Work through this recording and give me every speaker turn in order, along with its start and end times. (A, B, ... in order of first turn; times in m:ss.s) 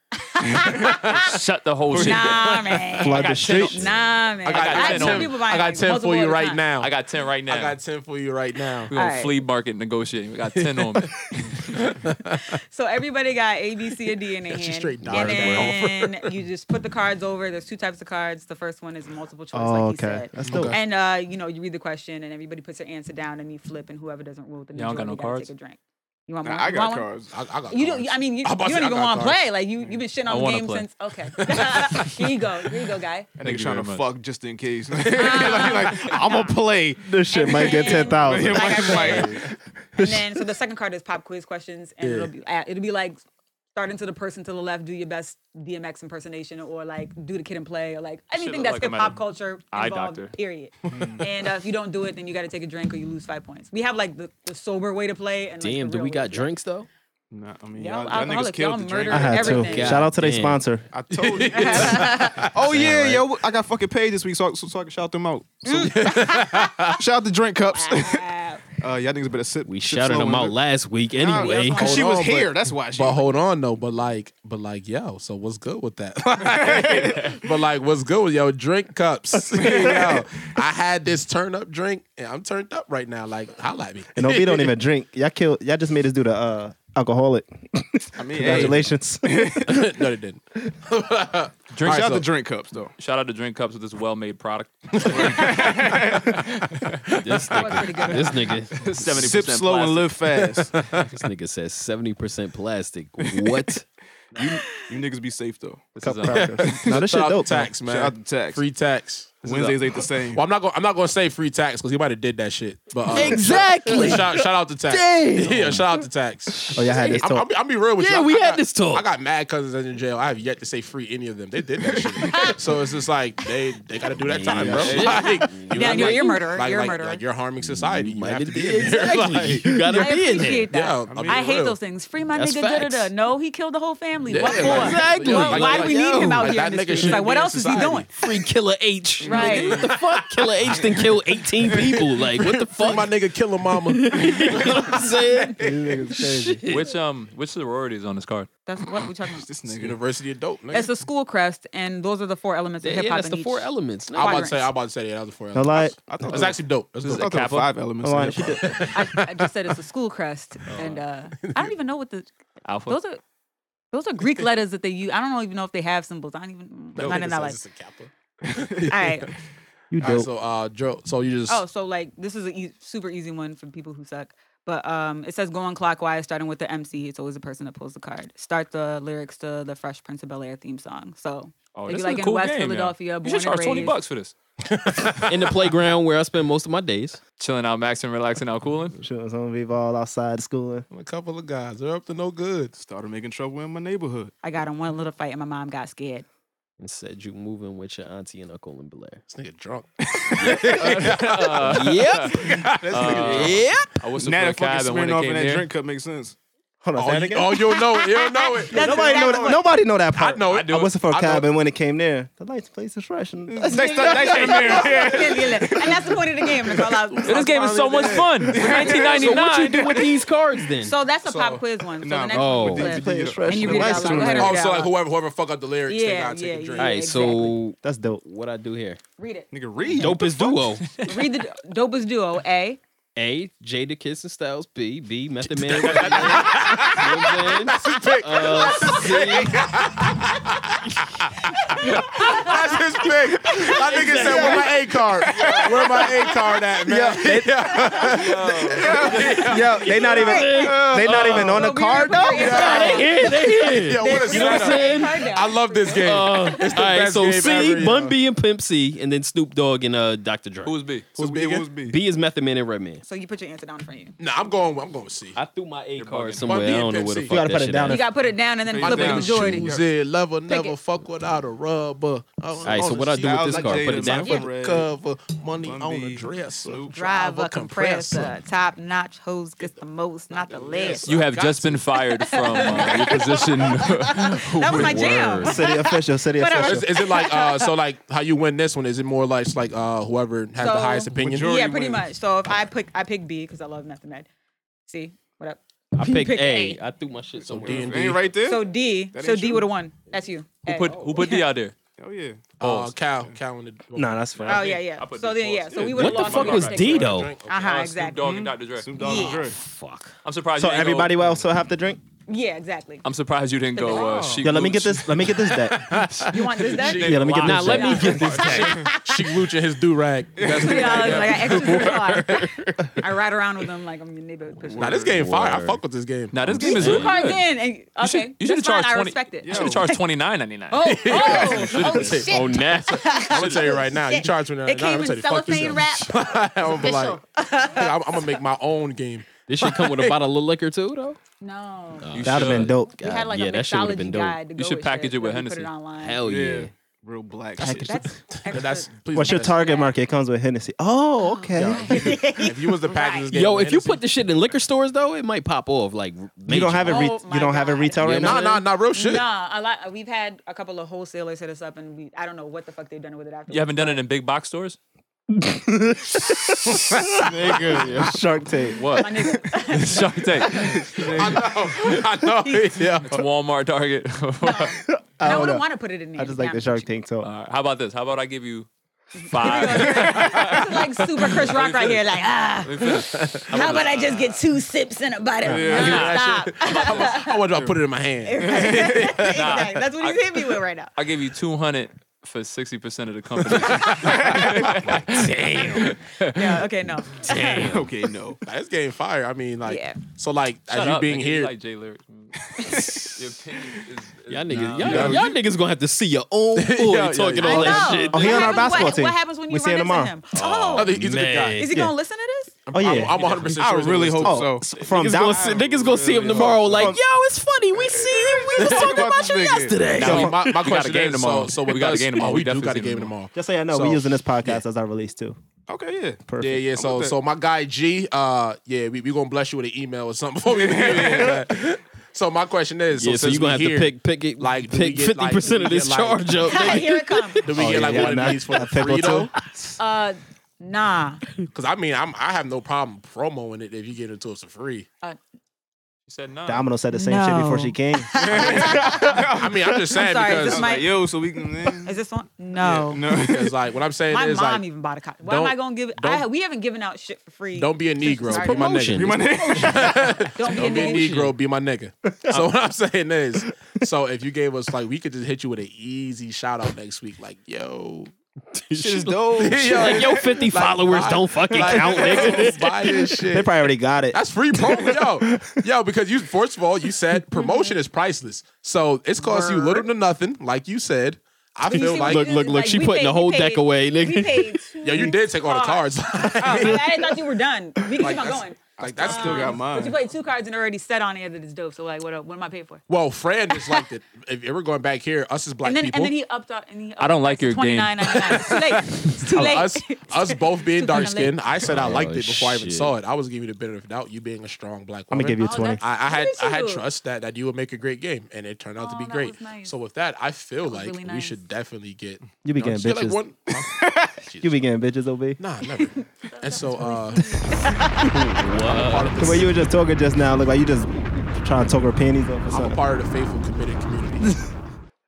0:00.2-0:01.1 A
0:00.4-0:00.8 B
0:00.8-0:03.8 C
0:00.8-0:01.4 D
0:01.9-0:02.4 B
0:02.0-0:06.6 A
0:02.3-0:03.2 D
0:03.0-0:03.9 E
0:04.4-0:06.9 D
0:04.4-0:05.4 C
0:06.8-0:07.8 C
0:07.4-0:08.9 D
0:08.9-0:11.1 C
0:08.9-0:09.4 A
0:11.0-0:12.5 D
0:12.7-0:27.1 A
0:14.5-0:16.3 D
0:19.5-0:20.8 E
0:20.4-0:20.8 D
0:24.7-0:25.5 C
0:26.4-0:27.3 B
0:27.3-0:29.4 D
0:27.7-0:33.3 A
0:30.2-0:30.9 C
0:33.4-0:39.4 B
0:33.4-0:34.1 C
0:35.1-0:36.6 A
0:37.0-0:39.4 E
0:37.3-0:39.4 A
0:39.9-0:40.4 E
0:40.0-0:43.2 A
0:42.0-0:42.3 D
0:43.7-0:56.5 A
0:48.3-0:50.3 C
0:50.9-0:51.2 B
0:55.6-0:56.9 F
0:57.3-1:00.1 B
0:57.8-1:00.0 A
0:59.1-1:00.9 E
0:59.5-1:00.6 F
1:00.9-1:05.9 B
1:01.1-1:02.6 D
1:01.5-1:02.4 A
1:02.7-1:03.2 F
1:05.6-1:06.7 A
1:05.8-1:07.0 D
1:07.0-1:08.2 B
1:07.7-1:08.6 A
1:08.8-1:10.6 B
1:09.6-1:12.0 F
1:11.1-1:13.4 B
1:11.2-1:12.0 A
1:11.8-1:24.7 D
1:16.4-1:17.4 B
1:19.6-1:20.2 B
1:24.1-1:29.7 E
1:28.2-1:29.9 B
1:28.4-1:28.8 D
1:29.6-1:32.3 D
1:31.7-1:32.1 C
1:31.8-1:32.9 B
1:33.0-1:36.1 C
1:35.0-1:35.5 D
1:35.0-1:36.5 B
1:37.1-1:37.4 D
1:37.2-1:38.8 F
1:37.5-1:38.5 A
1:38.8-1:40.2 C
1:38.8-1:40.8 B
1:40.7-1:41.0 D
1:41.0-1:43.8 F
1:43.2-1:43.7 B
1:44.3-1:47.0 B
1:45.9-1:46.6 C
1:46.0-1:47.7 E
1:46.6-1:49.7 D
1:47.8-1:48.6 B
1:49.4-1:50.4 B
1:50.2-1:56.7 D
1:53.0-1:57.3 F
1:56.7-1:57.5 E
1:57.2-2:09.9 D
1:58.0-1:59.0 F
2:04.2-2:06.5 F
2:05.0-2:07.2 A
2:07.6-2:10.7 F
2:09.9-2:18.1 A
2:10.7-2:11.8 D
2:11.1-2:11.5 B
2:12.3-2:13.1 F
2:14.3-2:18.1 D
2:14.4-2:16.6 F
2:18.1-2:23.2 F
2:19.2-2:19.8 A
2:19.3-2:21.0 D
2:21.8-2:25.7 D
2:23.7-2:26.9 F
2:25.6-2:26.6 E
2:26.7-2:28.5 C
2:28.6-2:29.5 A
2:29.3-2:30.0 B
2:29.7-2:30.9 D
2:30.7-2:34.7 A
2:32.8-2:34.5 F
2:34.1-2:37.3 D
2:35.5-2:36.0 E
2:36.1-2:38.8 B
2:37.0-2:37.7 C
2:38.0-2:38.7 E
2:38.6-2:39.2 D
2:38.9-2:42.3 A
2:40.7-2:41.0 F
2:41.4-2:41.7 D
2:42.6-2:43.0 C
2:42.8-2:43.2 A
2:43.9-2:47.6 A
2:46.9-2:49.3 D
2:48.5-2:48.8 B
2:48.8-2:49.3 A
2:49.9-2:50.3 E
2:50.0-2:51.6 D
2:51.5-3:04.0 A
3:01.7-3:04.3 C
3:04.6-3:05.6 D
3:05.2-3:07.2 F
3:07.4-3:09.0 C
3:09.0-3:10.8 E
3:10.9-3:12.7 D
3:12.7-3:14.3 B
3:14.4-3:16.2 A
3:16.8-3:19.2 F
3:19.3-3:21.8 D
3:20.1-3:21.1 B
3:20.4-3:22.4 F
3:20.8-3:25.7 C
3:22.4-3:23.6 B
3:22.4-3:23.6 D
3:23.2-3:23.9 F
3:24.2-3:26.4 B
3:26.8-3:27.7 E
3:27.0-3:29.6 D
3:27.7-3:29.6 A
3:28.7-3:34.6 E
3:30.1-3:31.4 D
3:30.5-3:30.9 C
3:33.5-3:37.0 B
3:33.7-3:39.1 A
3:37.2-3:40.0 C
3:37.7-3:40.3 B
3:39.0-3:40.9 F
3:40.8-3:44.9 A
3:41.2-3:41.6 D
3:42.0-3:44.4 B
3:42.3-3:42.9 F
3:42.7-3:44.6 E
3:44.3-3:47.2 D
3:45.9-3:47.6 A
3:46.7-3:49.0 F
3:47.8-3:48.2 E
3:49.2-3:52.8 A
3:49.5-3:50.6 B
3:49.9-3:50.9 F
3:53.2-3:59.6 F
3:55.4-4:09.8 D
3:56.1-3:56.4 C
4:01.7-4:02.6 A
4:03.5-4:04.6 B
4:03.9-4:04.6 F
4:05.2-4:06.2 B
4:06.8-4:08.2 E
4:08.1-4:09.1 C
4:08.4-4:11.8 B
4:09.4-4:12.8 E
4:09.5-4:11.4 F
4:10.0-4:16.8 A
4:12.2-4:15.4 F
4:12.4-4:18.1 D
4:15.9-4:20.8 F
4:20.6-4:21.1 C
4:21.1-4:21.7 D
4:21.2-4:22.0 B
4:21.8-4:23.0 F
4:23.0-4:24.2 A
4:24.2-4:25.4 D
4:25.3-4:28.0 F
4:26.0-4:26.7 C
4:26.4-4:27.4 D
4:27.3-4:28.0 E
4:27.8-4:29.7 A
4:28.7-4:29.9 B
4:28.8-4:38.3 D
4:30.5-4:30.8 A
4:32.6-4:34.4 F
4:33.1-4:34.9 B
4:35.6-4:37.1 B
4:36.9-4:41.1 A
4:40.5-4:41.8 D
4:40.7-4:41.1 B
4:41.0-4:45.4 C
4:41.9-4:47.7 A
4:44.6-4:45.6 F
4:45.4-4:46.9 E
4:46.5-4:51.6 D
4:50.6-4:54.3 A
4:51.1-4:52.1 B
4:54.9-4:56.8 A
4:55.9-4:58.0 F
4:57.4-4:58.4 D
4:57.6-4:59.7 B
4:58.4-5:01.5 A
5:00.6-5:01.7 C
5:02.0-5:02.5 B
5:02.6-5:04.6 D
5:02.6-5:02.9 C
5:03.9-5:04.8 E
5:04.4-5:09.2 C
5:04.5-5:08.2 A
5:05.8-5:06.3 B
5:05.9-5:07.3 F
5:06.4-5:07.7 D
5:08.2-5:09.6 B
5:09.0-5:09.5 A
5:09.1-5:10.1 F
5:10.2-5:11.1 C
5:10.6-5:12.0 E
5:12.3-5:13.0 A
5:13.0-5:15.3 C
5:13.7-5:14.4 A
5:13.9-5:14.4 B
5:14.4-5:16.1 E
5:15.5-5:17.4 D
5:16.3-5:18.9 A
5:16.7-5:18.4 E
5:16.8-5:18.8 C
5:17.3-5:19.0 F
5:18.5-5:22.1 D
5:20.4-5:22.3 B
5:20.4-5:25.0 A
5:21.4-5:22.2 C
5:24.6-5:25.2 B
5:24.8-5:26.4 D
5:25.0-5:25.8 F
5:26.3-5:31.7 C
5:26.4-5:27.2 F
5:26.5-5:30.0 A
5:29.4-5:29.9 B
5:30.7-5:38.4 A
5:30.8-5:40.2 D
5:31.6-5:33.7 F
5:39.5-5:41.2 F
5:41.4-5:42.1 A
5:42.0-5:44.4 F
5:42.1-5:42.7 C
5:42.2-5:42.9 E
5:42.9-5:46.2 A
5:44.5-5:45.7 C
5:46.0-5:46.7 F
5:46.2-5:48.0 B
5:47.6-5:48.1 E
5:47.6-5:49.9 A
5:48.4-5:49.7 D
5:49.1-5:52.1 E
5:51.2-5:53.3 A
5:51.5-5:54.0 D
5:53.3-5:57.2 F
5:56.5-5:58.5 E
5:56.8-6:04.0 A
5:58.0-5:58.6 F
5:58.1-5:59.3 D
6:03.5-6:04.8 C
6:05.3-6:09.0 E
6:07.2-6:08.2 B
6:08.7-6:11.0 C
6:09.0-6:10.2 A
6:10.5-6:11.5 B
6:11.0-6:13.2 D
6:12.4-6:12.8 A
6:13.0-6:14.8 C
6:14.4-6:16.9 A
6:14.9-6:17.3 E
6:17.2-6:22.0 C
6:19.2-6:27.4 A
6:19.7-6:20.0 B
6:22.6-6:24.4 C
6:23.1-6:23.8 D
6:25.4-6:26.1 B
6:25.5-6:29.6 D
6:25.7-6:26.2 C
6:27.5-6:27.8 B
6:28.2-6:30.9 A
6:28.4-6:29.0 B
6:29.3-6:36.6 C
6:33.5-6:33.9 D
6:34.0-6:34.9 B
6:34.8-6:36.0 F
6:36.3-6:37.7 A
6:37.2-6:37.9 F
6:37.5-6:38.4 B
6:38.4-6:41.5 D
6:39.6-6:40.0 A
6:40.7-6:45.3 C
6:42.5-6:43.1 B
6:42.7-6:43.1 F
6:44.3-6:48.9 F
6:44.8-6:45.3 D
6:44.8-6:45.2 B
6:46.5-6:48.0 D
6:47.4-6:50.9 A
6:48.1-6:50.1 E
6:50.3-6:51.7 F
6:50.7-6:51.7 D
6:51.5-6:52.5 A
6:52.7-6:54.5 D
6:52.7-6:53.2 E
6:53.4-6:57.0 B
6:54.2-6:55.6 E
6:54.7-7:00.6 F
6:56.3-6:57.0 E
6:57.7-7:00.1 B
6:59.9-7:03.1 C
7:00.0-7:03.3 D
7:03.3-7:05.4 E
7:03.7-7:04.0 B
7:05.7-7:07.2 B
7:06.3-7:06.6 E
7:06.4-7:16.8 D
7:10.5-7:11.4 B
7:13.0-7:18.1 F
7:16.4-7:17.4 A
7:17.4-7:19.3 D
7:17.6-7:19.3 E
7:19.8-7:21.2 A
7:21.5-7:24.8 D
7:26.1-7:26.7 C
7:26.4-7:28.9 E
7:26.9-7:29.2 A
7:28.2-7:29.8 B
7:28.4-7:28.8 D
7:29.4-7:30.8 D
7:29.9-7:31.1 A
7:30.4-7:32.0 B
7:31.8-7:33.0 A
7:32.6-7:33.6 B
7:33.1-7:34.6 D
7:34.1-7:38.6 A
7:35.2-7:36.2 D
7:37.5-7:48.1 D
7:38.3-7:40.1 B
7:38.4-7:39.2 F
7:39.3-7:41.1 A
7:40.6-7:41.3 F
7:48.5-7:53.2 F
7:48.7-7:50.5 B
7:49.4-7:53.5 D
7:51.6-7:52.4 E
7:53.2-7:55.6 E
7:54.1-8:02.3 D
7:57.3-7:57.8 A
7:59.2-7:59.8 A
8:01.6-8:12.8 A
8:01.7-8:04.7 F
8:04.8-8:07.1 D
8:08.0-8:09.7 D
8:08.8-8:10.0 B
8:12.9-8:16.1 D
8:13.5-8:13.8 A
8:15.6-8:21.4 A
8:17.0-8:18.5 C
8:18.2-8:34.6 D
8:21.6-8:22.9 F
8:25.1-8:25.8 E
8:25.4-8:26.8 A
8:28.8-8:29.7 A
8:30.6-8:31.4 A
8:32.4-8:33.2 E
8:33.5-8:34.2 B
8:34.4-8:35.4 E
8:35.4-8:37.5 D
8:35.8-8:38.2 A
8:37.9-8:39.4 F
8:38.5-8:39.7 D
8:39.2-8:42.8 E
8:42.5-8:44.4 D